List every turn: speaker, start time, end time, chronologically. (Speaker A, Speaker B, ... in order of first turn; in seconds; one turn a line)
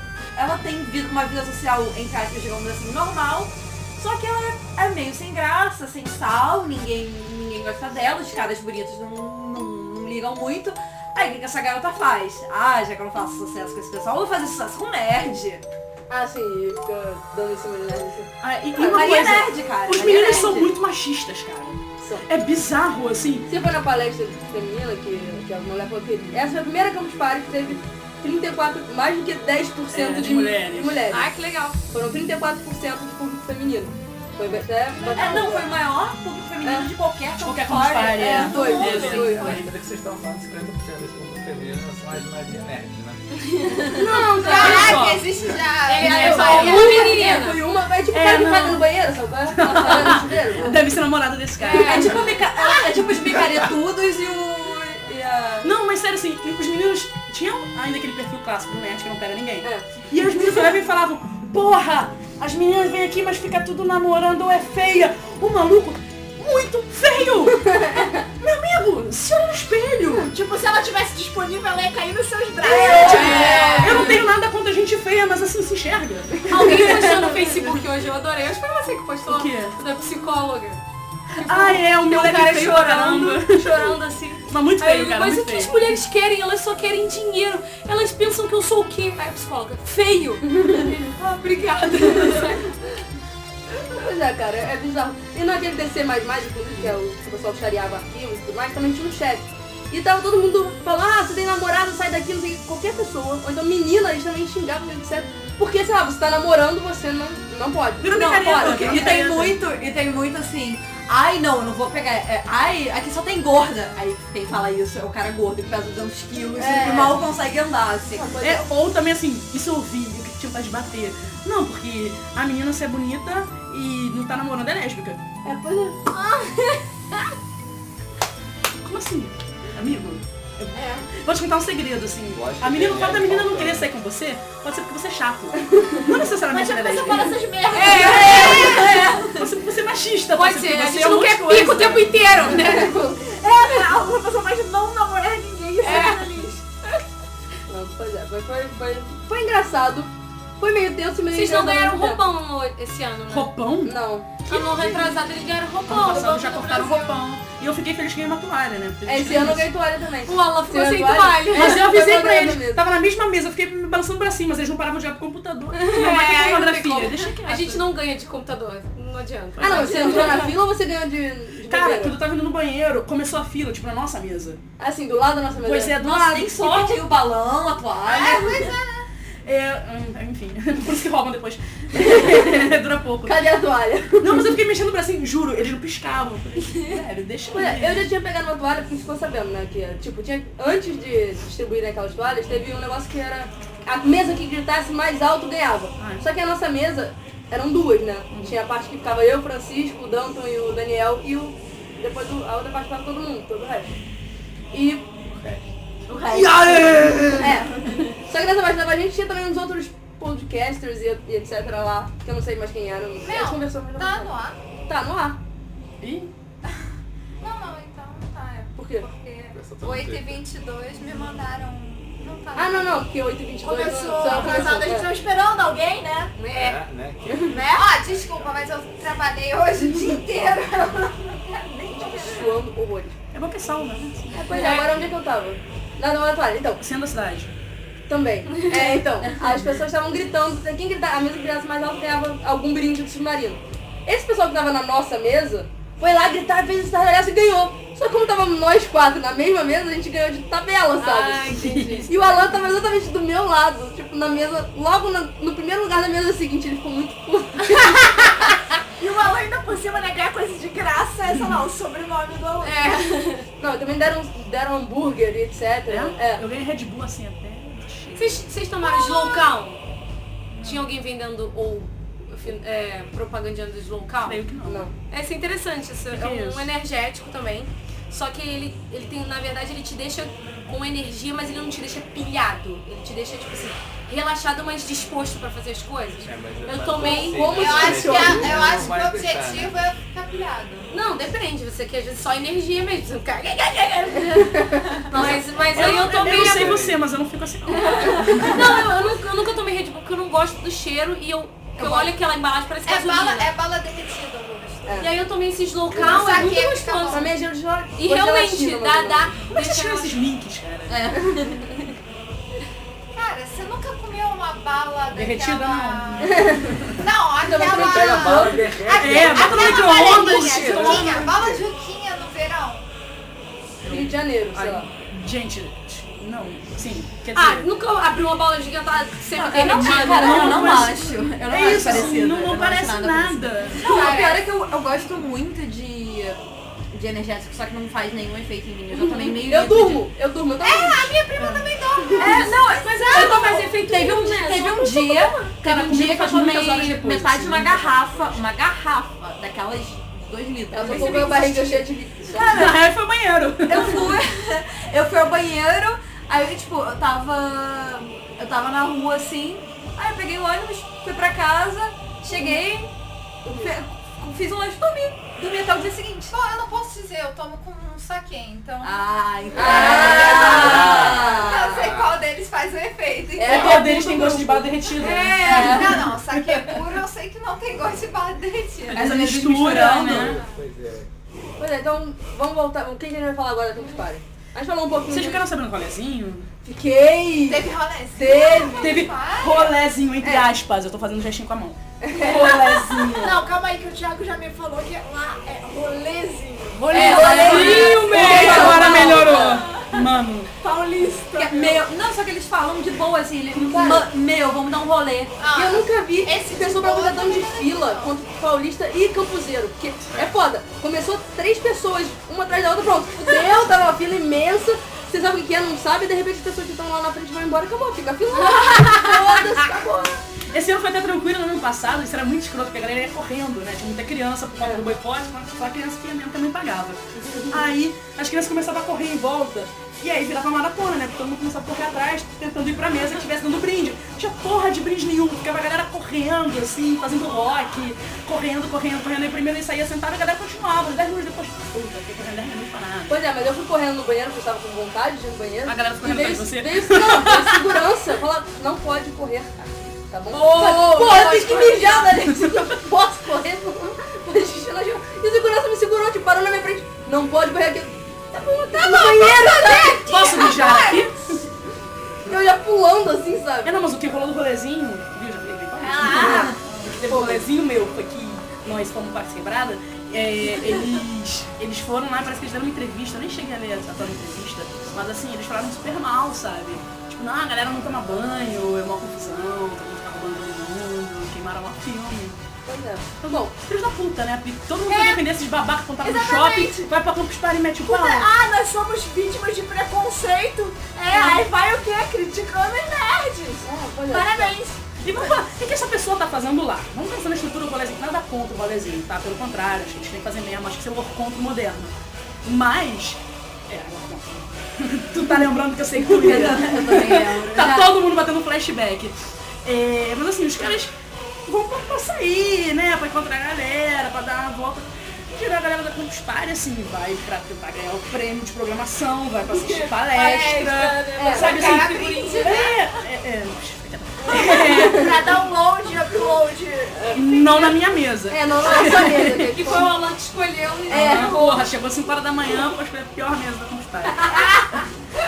Speaker A: 0.3-15.6
Speaker B: 16.1-19.3
Speaker C: 18.4-23.5
Speaker A: 18.8-20.7
Speaker B: 22.0-22.2
Speaker B: 23.5-31.3
Speaker C: 29.9-31.0
Speaker D: 31.1-31.8
Speaker B: 31.9-35.6
Speaker A: 35.1-39.5
Speaker B: 36.6-36.9
Speaker C: 37.4-39.7
Speaker B: 38.2-39.6
Speaker E: 38.9-43.7
Speaker D: 43.5-45.0
Speaker B: 43.9-45.0
Speaker C: 43.9-45.3
Speaker F: 44.4-47.0
Speaker D: 45.9-47.6
Speaker C: 45.9-47.2
Speaker B: 46.0-50.8
Speaker C: 48.1-48.9
Speaker C: 49.5-52.3
Speaker D: 51.6-52.3
Speaker A: 51.7-55.2
Speaker C: 53.0-53.4
Speaker B: 55.1-55.7
Speaker C: 55.6-70.3
Speaker B: 67.7-68.0
Speaker G: 70.3-74.2
Speaker B: 72.6-74.1
Speaker D: 72.8-74.2
Speaker C: 72.9-77.8
Speaker D: 76.5-80.8
Speaker C: 79.3-79.8
Speaker C: 81.3-86.0
Speaker D: 81.3-92.7
Speaker B: 90.5-90.8
Speaker C: 92.0-92.5
Speaker B: 93.9-109.1
Speaker C: 108.0-109.6
Speaker A: 108.2-118.3
Speaker B: 116.6-117.2
Speaker B: 118.1-118.7
Speaker C: 118.4-125.2
Speaker B: 125.4-126.0
Speaker D: 126.1-126.8
Speaker C: 128.8-142.5
Speaker E: 132.3-133.9
Speaker G: 136.4-139.1
Speaker D: 137.7-139.4
Speaker D: 140.3-143.2
Speaker G: 142.7-146.6
Speaker D: 145.8-146.5
Speaker B: 147.7-152.2
Speaker D: 151.3-153.5
Speaker C: 153.3-155.1
Speaker B: 153.8-154.3
Speaker D: 154.4-157.2
Speaker C: 155.8-159.7
Speaker B: 159.1-162.8
Speaker D: 160.2-161.9
Speaker C: 161.5-167.9
Speaker D: 165.7-170.5
Speaker C: 169.6-170.5
Speaker B: 169.6-172.2
Speaker C: 171.7-174.6
Speaker B: 174.8-175.9
Speaker C: 175.6-177.0
Speaker A: 176.0-178.7
Speaker F: 178.0-179.1
Speaker C: 179.4-183.4
Speaker B: 183.2-184.5
Speaker C: 184.2-188.1
Speaker B: 187.5-203.9
Speaker C: 196.0-196.2
Speaker B: 204.7-205.5
Speaker A: 206.1-207.9
Speaker C: 206.3-207.5
Speaker B: 207.4-207.6
Speaker B: 208.2-214.3
Speaker F: 213.2-214.6
Speaker B: 214.9-215.4
Speaker C: 216.0-216.3
Speaker F: 217.4-223.0
Speaker B: 218.8-219.1
Speaker E: 219.5-220.4
Speaker B: 222.5-225.1
Speaker G: 223.6-226.3
Speaker F: 224.1-224.9
Speaker D: 226.4-226.8
Speaker E: 226.5-228.6
Speaker F: 227.5-232.6
Speaker G: 227.5-227.9
Speaker B: 231.9-233.2
Speaker C: 233.3-234.9
Speaker B: 234.3-236.8
Speaker D: 234.5-234.9
Speaker C: 236.8-237.5
Speaker B: 238.1-258.5
Speaker D: 238.7-239.0
Speaker D: 251.0-252.3
Speaker C: 251.6-252.1
Speaker G: 259.0-262.8
Speaker C: 261.3-261.6
Speaker D: 262.6-263.4
Speaker B: 263.6-266.4
Speaker C: 265.9-268.4
Speaker D: 268.1-269.8
Speaker C: 270.6-270.8
Speaker D: 270.6-274.4
Speaker C: 274.2-274.9
Speaker B: 274.6-274.9
Speaker D: 275.0-287.8
Speaker C: 276.1-276.7
Speaker E: 286.2-289.8
Speaker B: 287.0-288.7
Speaker F: 287.5-290.9
Speaker D: 290.9-296.8
Speaker F: 294.8-295.1
Speaker C: 295.1-298.9
Speaker E: 295.6-297.0
Speaker D: 297.7-303.5
Speaker A: 301.8-302.1
Speaker F: 302.8-305.1
Speaker B: 304.8-305.1
Speaker D: 305.0-307.3
Speaker F: 305.9-307.3
Speaker B: 306.0-306.5
Speaker B: 307.1-309.3
Speaker D: 307.9-310.2
Speaker C: 309.5-311.1
Speaker A: 310.9-311.7
Speaker F: 313.1-322.8
Speaker C: 315.1-316.1
Speaker B: 316.2-316.8
Speaker B: 317.4-318.7
Speaker E: 317.8-321.6
Speaker C: 318.9-321.3
Speaker G: 320.1-320.6
Speaker E: 323.8-324.1
Speaker B: 323.9-324.9
Speaker C: 324.5-327.7
Speaker D: 327.3-330.9
Speaker A: 329.4-336.4
Speaker C: 329.7-334.0
Speaker F: 333.8-334.4
Speaker A: 336.9-340.0
Speaker B: 339.4-341.1
Speaker F: 340.6-343.4
Speaker G: 341.3-342.4
Speaker A: 342.2-351.6
Speaker D: 343.1-345.6
Speaker C: 345.6-347.9
Speaker B: 350.7-352.4
Speaker D: 350.8-351.8
Speaker A: 352.2-352.9
Speaker C: 352.3-354.2
Speaker A: 353.7-362.9
Speaker B: 363.4-363.7
Speaker A: 363.5-366.3
Speaker F: 366.3-369.0
Speaker A: 368.8-371.9
Speaker B: 369.5-371.0
Speaker F: 369.6-374.1
Speaker E: 370.2-372.2
Speaker B: 373.4-376.0
Speaker C: 373.5-376.6
Speaker D: 375.0-375.7
Speaker F: 375.1-379.1
Speaker A: 375.4-376.1
Speaker C: 378.9-380.4
Speaker A: 378.9-380.4
Speaker E: 380.1-381.1
Speaker F: 380.2-380.5
Speaker B: 381.6-385.4
Speaker C: 385.1-386.5
Speaker B: 386.6-389.0
Speaker F: 387.5-389.8
Speaker C: 388.8-393.4
Speaker B: 392.0-392.6
Speaker G: 393.1-399.4
Speaker C: 396.9-400.5
Speaker B: 396.9-399.5
Speaker A: 396.9-399.3
Speaker D: 397.0-399.5
Speaker G: 400.6-401.8
Speaker A: 401.3-405.4
Speaker B: 403.6-404.0
Speaker F: 405.4-408.1
Speaker B: 405.5-420.2
Speaker D: 418.5-419.0
Speaker C: 420.5-427.0
Speaker B: 427.1-427.6
Speaker C: 427.5-443.2
Speaker B: 443.1-460.0
Speaker C: 445.6-447.8
Speaker C: 450.3-452.5
Speaker A: 450.6-452.1
Speaker C: 459.0-461.2
Speaker F: 459.3-460.8
Speaker G: 459.3-460.8
Speaker B: 462.3-463.7
Speaker C: 463.6-482.4
Speaker A: 465.9-466.6
Speaker B: 466.1-467.4
Speaker B: 482.6-483.5
Speaker C: 483.2-488.3
Speaker G: 484.9-485.2
Speaker G: 486.0-486.9
Speaker G: 487.8-495.3
Speaker C: 491.1-491.4
Speaker B: 493.6-494.5
Speaker C: 495.0-501.9
Speaker C: 502.4-510.9
Speaker A: 505.9-507.9
Speaker C: 511.4-525.2
Speaker G: 520.1-522.7
Speaker D: 520.3-522.6
Speaker B: 521.1-521.5
Speaker F: 521.7-522.7
Speaker B: 524.3-525.1
Speaker G: 524.3-527.7
Speaker B: 526.9-527.4
Speaker C: 527.1-529.9
Speaker B: 528.3-529.9
Speaker D: 528.9-531.6
Speaker B: 530.9-531.4
Speaker C: 530.9-534.8